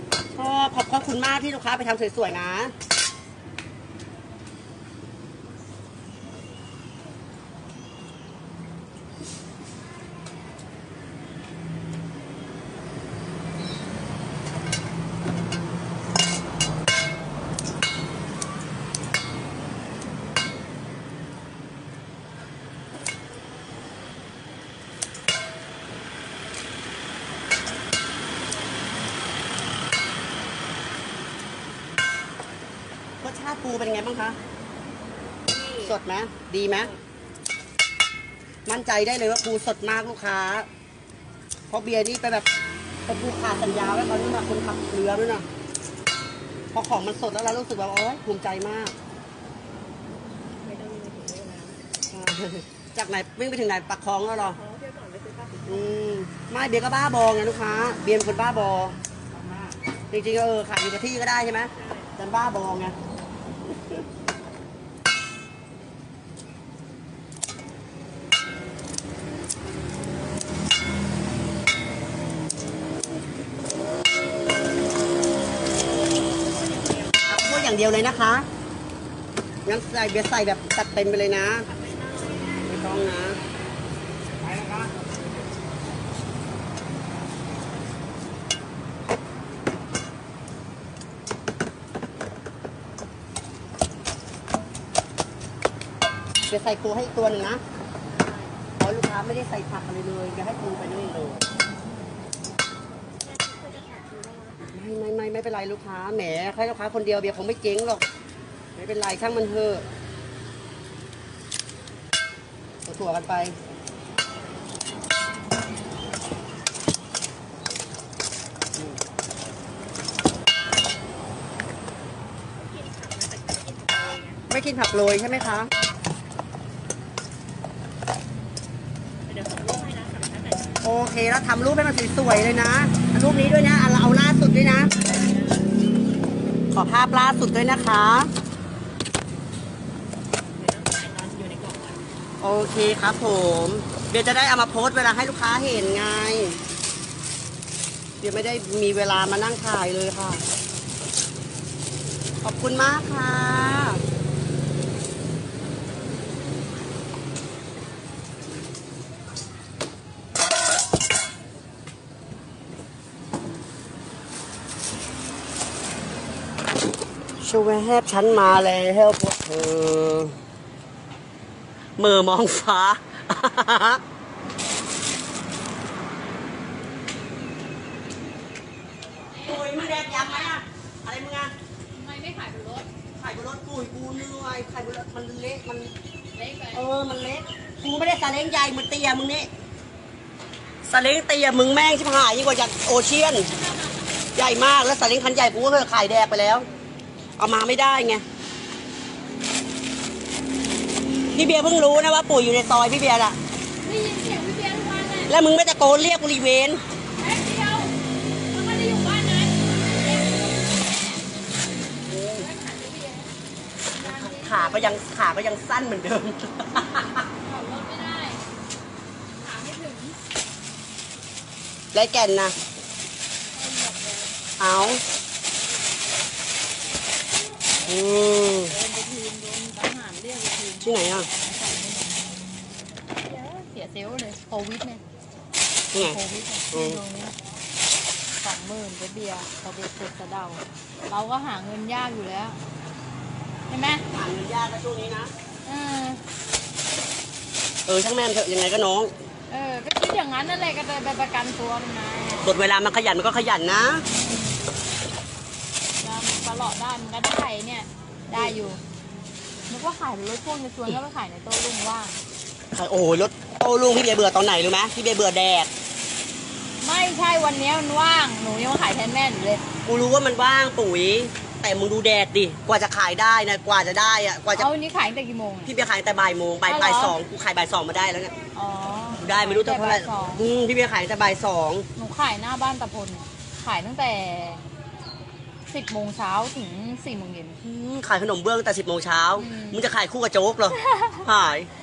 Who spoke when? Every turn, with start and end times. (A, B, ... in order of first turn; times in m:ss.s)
0:00.3-0:02.7 A
0:33.2-0:34.4 A
0:35.5-0:36.0 B
0:35.8-0:36.9 A
0:36.7-0:37.0 B
0:38.6-0:40.7 A
0:41.7-0:42.4 A
0:43.1-0:45.5 A
0:46.7-0:48.9 A
0:50.6-0:51.8 B
0:52.1-0:54.6 A
0:54.3-0:56.1 B
0:55.7-0:59.0 A
0:59.4-0:59.6 B
1:00.1-1:03.0 A
1:01.7-1:02.1 B
1:16.2-1:18.0 B
1:17.3-1:18.5 A
1:19.6-1:21.7 A
1:21.6-1:22.9 B
1:22.6-1:23.4 A
1:24.5-1:24.8 A
1:36.5-1:37.6 A
1:38.1-1:38.6 B
1:38.8-1:41.4 A
1:43.2-1:44.6 B
1:44.7-1:48.0 A
1:48.8-1:49.8 A
1:52.9-1:53.6 A
2:02.6-2:04.4 B
2:04.5-2:05.7 A
2:09.3-2:10.8 B
2:10.8-2:14.9 A
2:13.1-2:13.7 B
2:14.9-2:15.7 B
2:16.7-2:18.3 A
2:20.6-2:22.0 B
2:22.4-2:26.6 A
2:28.2-2:30.4 A
2:32.4-2:34.0 A
2:47.4-2:50.4 A
2:52.0-2:54.0 A
2:59.3-3:00.6 C
2:59.4-3:01.5 A
3:01.9-3:02.9 C
3:03.2-3:05.9 A
3:06.3-3:06.8 C
3:06.7-3:09.5 A
3:10.8-3:13.5 A
3:13.5-3:14.0 C
3:14.4-3:16.7 A
3:17.4-3:18.2 A
3:21.3-3:23.4 A
3:23.8-3:25.3 C
3:25.3-3:26.8 A
3:27.2-3:28.0 C
3:28.5-3:31.2 C
3:32.1-3:32.5 A
3:32.3-3:33.3 C
3:33.9-3:35.0 C
3:34.0-3:37.2 A
3:37.4-3:38.4 C
3:39.3-3:40.2 C
3:41.9-3:42.6 A
3:43.5-3:44.3 C
3:44.6-3:45.0 A
3:47.8-3:48.7 A
3:48.7-3:52.2 C
3:50.8-3:51.3 A
3:53.2-3:55.0 C
3:55.9-3:56.2 A
3:55.9-3:57.4 C
3:56.7-3:57.0 A
3:58.4-4:02.6 C
4:03.7-4:04.0 C
4:04.1-4:05.3 A
4:05.6-4:06.2 C
4:07.9-4:09.1 A
4:09.5-4:12.5 C
4:12.4-4:14.0 A
4:16.0-4:18.8 C
4:19.7-4:22.2 C
4:22.7-4:25.7 A
4:26.8-4:29.6 C
4:29.8-4:34.7 A
4:34.6-4:35.7 C
4:35.6-4:38.3 A
4:36.7-4:37.2 C
4:38.5-4:40.4 C
4:39.2-4:41.9 A
4:41.9-4:44.6 C
4:45.7-4:47.6 C
4:47.6-4:51.7 A
4:49.4-4:49.8 C
4:50.7-4:51.3 C